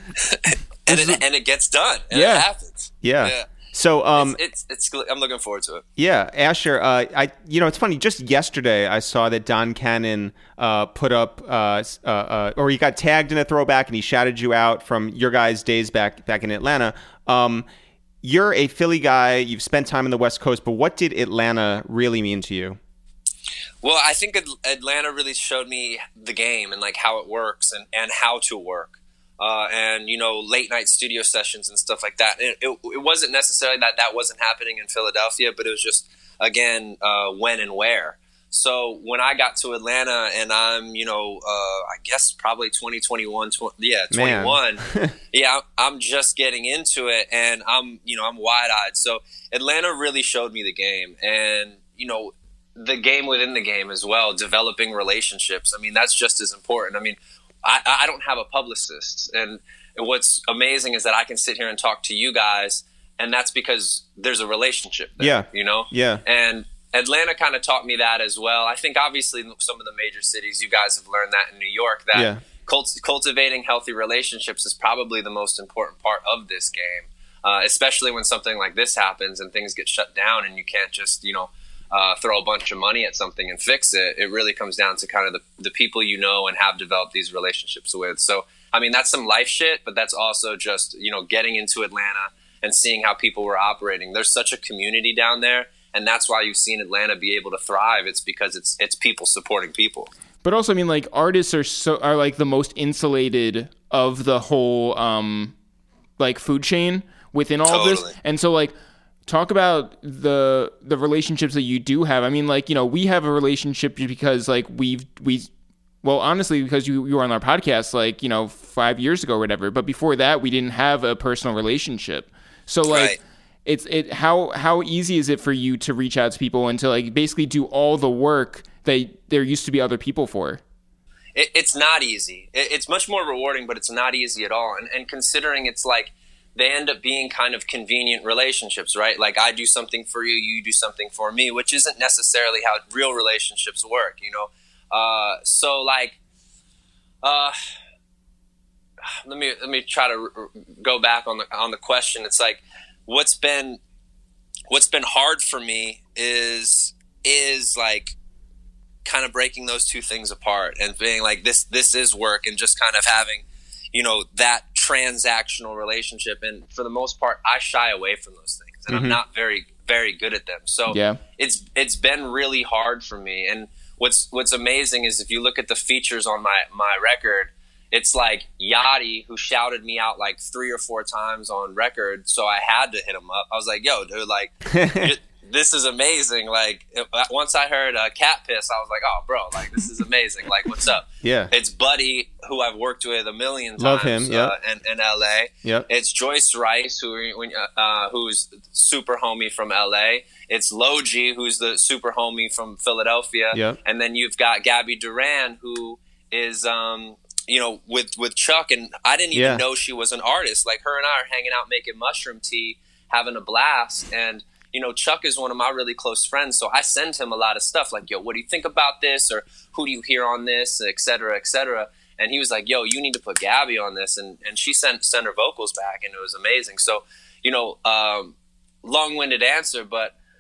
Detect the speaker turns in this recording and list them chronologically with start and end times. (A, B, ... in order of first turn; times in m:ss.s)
0:00.2-0:03.5 A
0:02.1-0:02.5 B
0:03.0-0:04.4 C
0:04.2-0:05.8 A
0:06.0-0:17.7 C
0:18.2-0:22.8 C
0:23.8-1:40.1 A
0:44.1-0:45.1 C
1:05.2-1:06.2 C
1:12.1-1:12.4 C
1:40.4-1:45.6 B
1:46.2-1:48.7 B
1:47.7-1:48.2 A
1:49.3-1:55.5 B
1:56.0-2:10.6 B
2:02.9-2:03.2 A
2:11.3-2:26.2 A
2:27.2-2:27.6 A
2:29.2-2:33.8 A
2:34.7-2:38.2 A
2:39.0-3:50.2 A
2:48.9-2:49.2 C
2:50.9-2:51.2 B
3:04.7-3:05.2 C
3:11.2-3:11.5 C
3:13.8-3:14.6 C
3:23.5-3:23.8 C
3:29.3-3:29.6 C